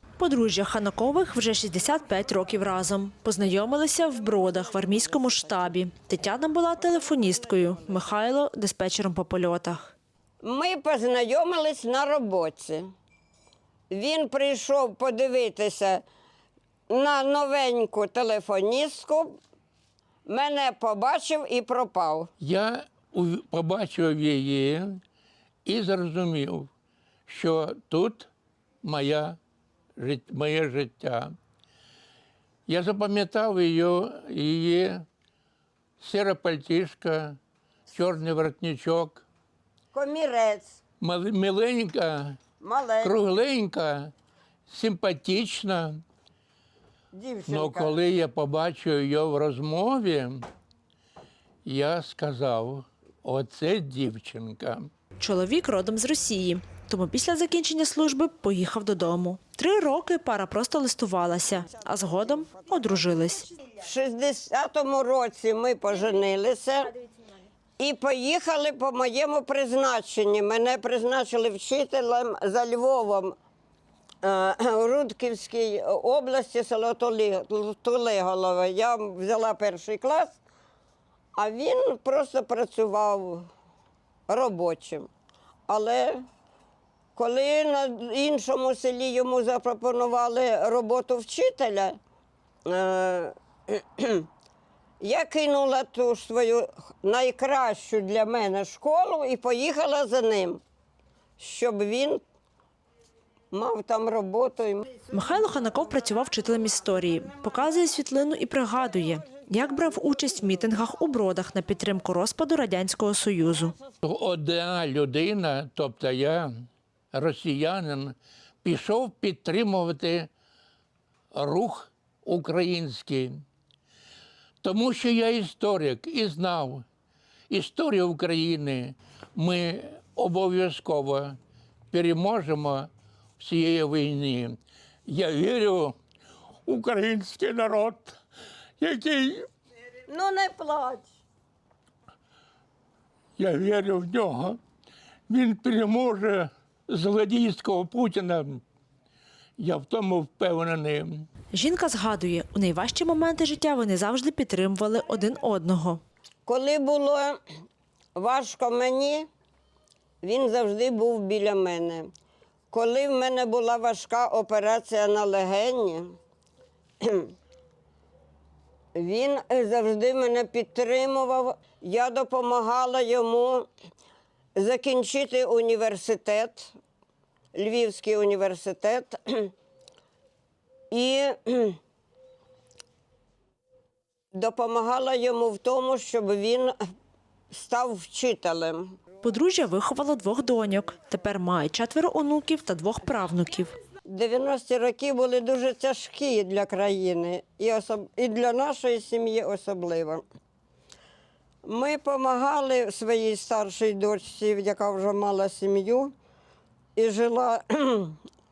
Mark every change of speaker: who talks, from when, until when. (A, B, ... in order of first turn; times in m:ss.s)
0:00.2-0:09.9 A
0:10.4-0:12.9 B
0:13.9-0:16.0 B
0:16.9-0:19.4 B
0:20.2-0:22.3 B
0:22.4-0:25.0 C
0:25.6-0:26.7 C
0:27.3-0:28.3 C
0:28.8-0:29.4 C
0:30.0-0:31.3 C
0:32.7-0:35.0 C
0:36.0-0:37.4 C
0:37.9-0:39.2 C
0:39.9-0:40.8 B
0:41.0-0:42.4 C
0:42.6-0:43.2 B
0:43.0-0:44.1 C
0:44.7-0:46.0 C
0:47.1-0:48.0 B
0:47.5-0:50.5 C
0:51.6-0:54.9 C
0:55.2-1:03.5 A
1:03.8-1:06.9 B
1:07.8-1:13.4 B
1:14.2-1:20.4 B
1:21.4-1:23.5 B
1:24.3-1:25.1 B
1:25.7-1:26.2 B
1:27.2-1:32.0 B
1:32.6-1:34.3 B
1:35.0-1:40.6 B
1:41.4-1:42.2 B
1:43.5-1:44.9 B
1:45.1-1:53.8 A
1:54.0-2:00.3 C
2:01.3-2:03.4 C
2:04.6-2:06.8 C
2:07.5-2:11.4 C
2:11.9-2:16.0 C
2:16.7-2:18.2 C
2:18.8-2:19.5 C
2:20.1-2:21.1 B
2:23.4-2:24.6 C
2:25.3-2:28.6 C
2:29.6-2:31.3 C
2:31.5-2:36.0 A
2:36.4-2:37.4 B
2:38.2-2:39.3 B
2:40.2-2:42.1 B
2:42.7-2:46.2 B
2:47.0-2:47.3 B
2:48.9-2:53.7 B
2:54.6-2:56.7 B
2:57.5-2:59.5 B
3:00.9-3:01.8 B
3:04.3-3:06.8 B
3:07.5-3:09.0 B
3:09.2-3:13.7 A
3:14.0-3:20.2 B
3:21.6-3:26.1 B
3:27.0-3:28.2 B